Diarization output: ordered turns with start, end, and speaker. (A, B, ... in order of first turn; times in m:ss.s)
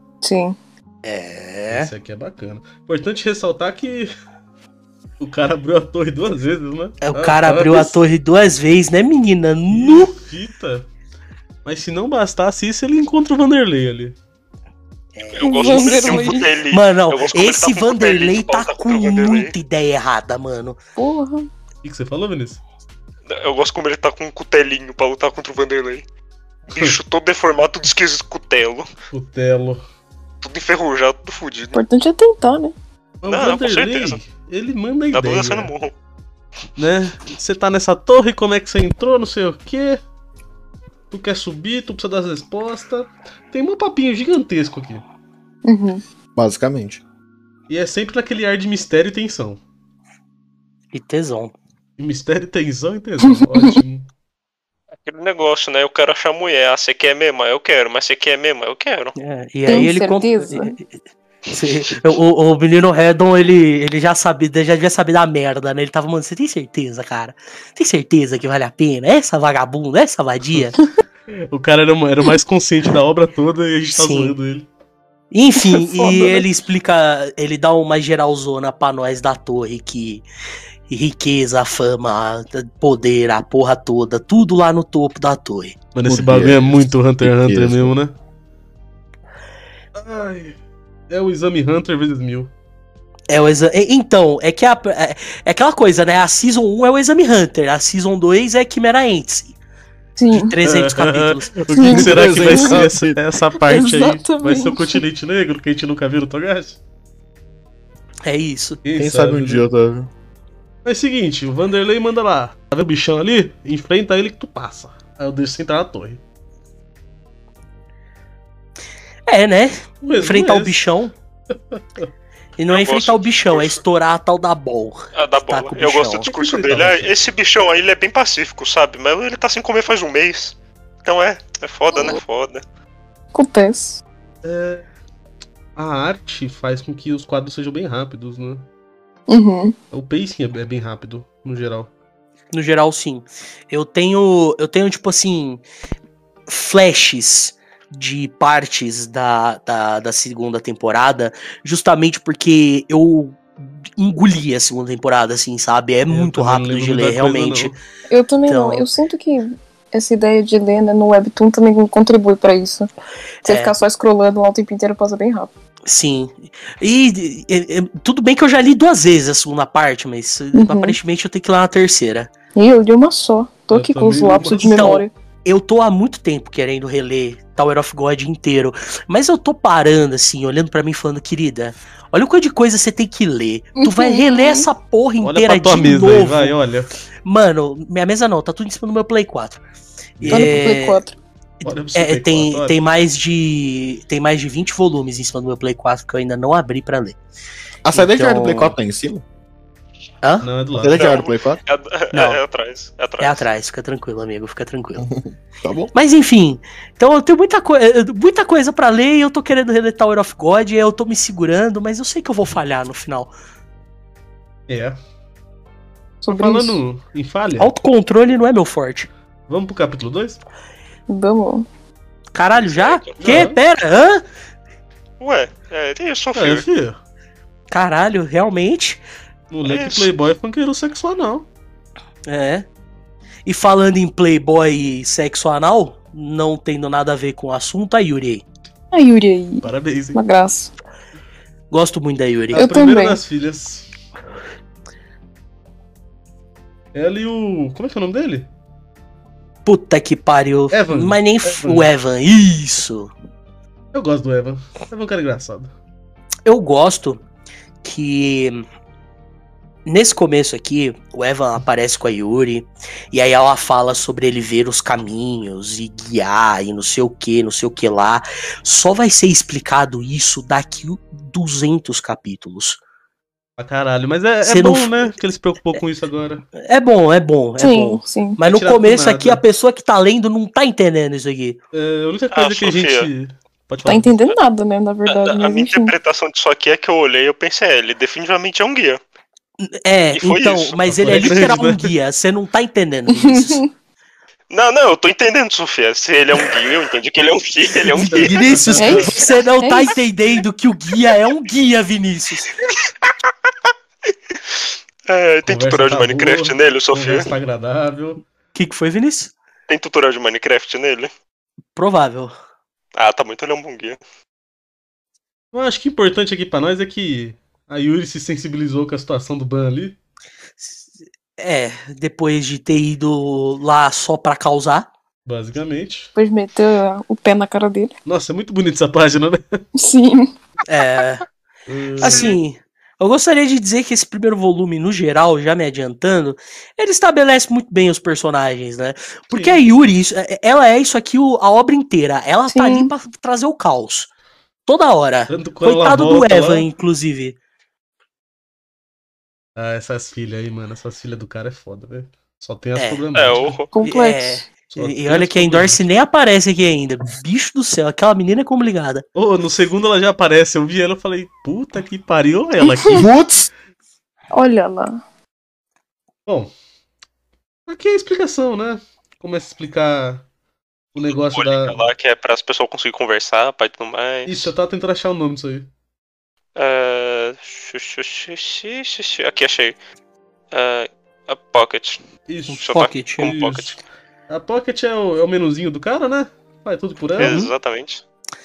0:00.2-0:00.6 A
0:01.0-0:01.9 B
0:01.7-0:04.1 C
0:05.2-0:08.0 C
0:07.0-0:10.1 B
0:09.7-0:10.9 C
0:11.6-0:14.2 C
0:15.2-0:20.8 B
0:15.3-0:19.5 D
0:15.4-0:16.5 A
0:21.0-0:21.5 A
0:21.8-0:22.6 C
0:23.3-0:26.0 D
0:26.7-0:28.9 D
0:29.1-0:29.8 C
0:30.4-0:31.8 D
0:31.7-0:32.8 A
0:33.2-0:35.7 C
0:33.3-0:34.2 D
0:35.1-0:35.9 D
0:36.8-0:40.0 C
0:41.1-0:45.0 C
0:45.6-0:46.0 A
0:46.4-0:47.0 E
0:47.7-0:49.6 C
0:50.9-0:51.5 B
0:52.0-0:54.1 C
0:53.3-0:53.8 A
0:55.0-0:59.2 D
0:59.2-1:00.9 B
0:59.7-1:00.8 A
1:01.5-1:10.8 B
1:11.5-1:14.7 C
1:13.9-1:14.4 B
1:15.3-1:20.2 B
1:15.6-1:16.4 A
1:20.9-1:25.8 B
1:26.0-1:28.2 C
1:26.1-1:27.9 E
1:30.0-1:30.6 C
1:31.1-1:32.5 C
1:33.3-1:39.6 B
1:40.2-1:40.6 A
1:40.3-1:41.6 B
1:40.6-1:46.8 C
1:41.8-1:42.8 A
1:41.8-1:43.2 E
1:43.6-1:45.0 A
1:48.2-1:48.8 B
1:48.8-1:49.6 C
1:49.0-1:50.1 E
1:50.8-1:56.2 C
1:59.3-2:01.2 B
2:00.0-2:00.8 C
2:01.7-2:02.1 C
2:02.6-2:06.3 B
2:02.7-2:03.8 D
2:05.2-2:12.6 D
2:06.2-2:07.2 C
2:13.3-2:14.0 A
2:14.4-2:14.8 C
2:15.8-2:18.7 C
2:19.3-2:19.8 A
2:19.9-2:21.9 C
2:22.5-2:25.6 B
2:26.5-2:37.8 B
2:36.1-2:37.8 C
2:38.1-2:42.9 A
2:38.5-2:38.9 B
2:43.4-2:45.5 A
2:43.5-2:43.8 B
2:45.9-2:52.3 B
2:50.5-2:51.0 A
2:52.6-2:55.1 A
2:53.7-2:54.9 C
2:54.5-3:06.6 B
3:03.8-3:04.7 A
3:05.2-3:06.9 C
3:07.2-3:09.6 B
3:10.2-3:10.7 C
3:10.2-3:11.0 B
3:10.3-3:11.2 A
3:11.6-3:17.2 B
3:11.6-3:12.8 C
3:17.8-3:19.2 E
3:17.9-3:18.8 B
3:20.2-3:20.5 B
3:20.4-3:21.2 C
3:20.8-3:21.6 E
3:20.9-3:23.5 D
3:22.1-3:22.4 B
3:23.2-3:25.1 B
3:25.0-3:25.9 E
3:25.9-3:33.3 B
3:34.7-3:35.0 C
3:36.2-3:36.8 A
3:36.3-3:37.7 C
3:37.6-3:39.1 B
3:39.5-3:40.4 C
3:41.1-3:41.7 A
3:42.3-3:44.2 B
3:42.6-3:43.4 D
3:43.2-3:43.6 C
3:45.2-3:46.6 D
3:46.4-3:47.0 C
3:47.7-3:49.0 B
3:49.5-3:51.5 C
3:49.6-3:50.1 D
3:52.3-3:52.7 B
3:53.5-3:58.4 B
3:58.9-4:00.7 A
3:59.6-4:00.2 C
4:01.7-4:02.7 B
4:02.5-4:03.2 A
4:02.5-4:03.9 C
4:06.9-4:08.5 C
4:09.6-4:13.1 B
4:10.7-4:11.9 C
4:13.9-4:15.7 C
4:16.5-4:17.2 B
4:17.8-4:18.7 B
4:19.9-4:32.8 B
4:33.6-4:36.4 C
4:34.4-4:35.1 B
4:36.6-4:41.6 B
4:37.6-4:38.4 A
4:38.4-4:39.4 C
4:41.7-4:44.1 C
4:42.3-4:43.1 D
4:43.8-4:46.0 A
4:45.1-4:49.0 D
4:49.6-4:53.6 B
4:50.2-4:51.3 D
4:50.9-4:51.9 C
4:53.1-4:53.7 A
4:54.5-4:58.4 D
4:57.9-5:02.5 B
4:58.0-4:59.1 C
4:58.8-5:00.0 A
5:05.1-5:07.3 D
5:05.5-5:08.2 C
5:08.6-5:09.3 B
5:09.7-5:11.1 D
5:11.8-5:12.3 B
5:13.0-5:14.0 D
5:15.5-5:20.0 C
5:20.6-5:20.9 B
5:21.4-5:24.9 B
5:25.2-5:26.1 C
5:26.2-5:27.9 A
5:28.0-5:29.6 C
5:29.8-5:30.3 A
5:30.7-5:31.2 B
5:31.7-5:32.4 C
5:32.0-5:44.1 B
5:39.3-5:39.6 C
5:42.5-5:42.9 A
5:44.7-5:47.4 B
5:45.3-5:46.7 C
5:49.6-5:53.6 C
5:52.8-5:53.0 B
5:53.2-5:53.7 D
5:53.7-5:54.5 A
5:53.8-5:59.0 B
5:54.7-5:55.8 C
5:59.2-6:03.1 C
6:02.6-6:03.0 A
6:02.9-6:03.5 E
6:04.3-6:05.0 A
6:06.3-6:06.5 C
6:07.7-6:10.2 C
6:10.9-6:11.8 C
6:11.1-6:14.5 D
6:14.3-6:15.7 C
6:16.6-6:19.8 D
6:20.5-6:22.0 D
6:22.3-6:22.6 C
6:22.5-6:23.3 B
6:22.6-6:23.8 D
6:23.2-6:27.4 C
6:27.2-6:28.0 D
6:27.2-6:27.5 B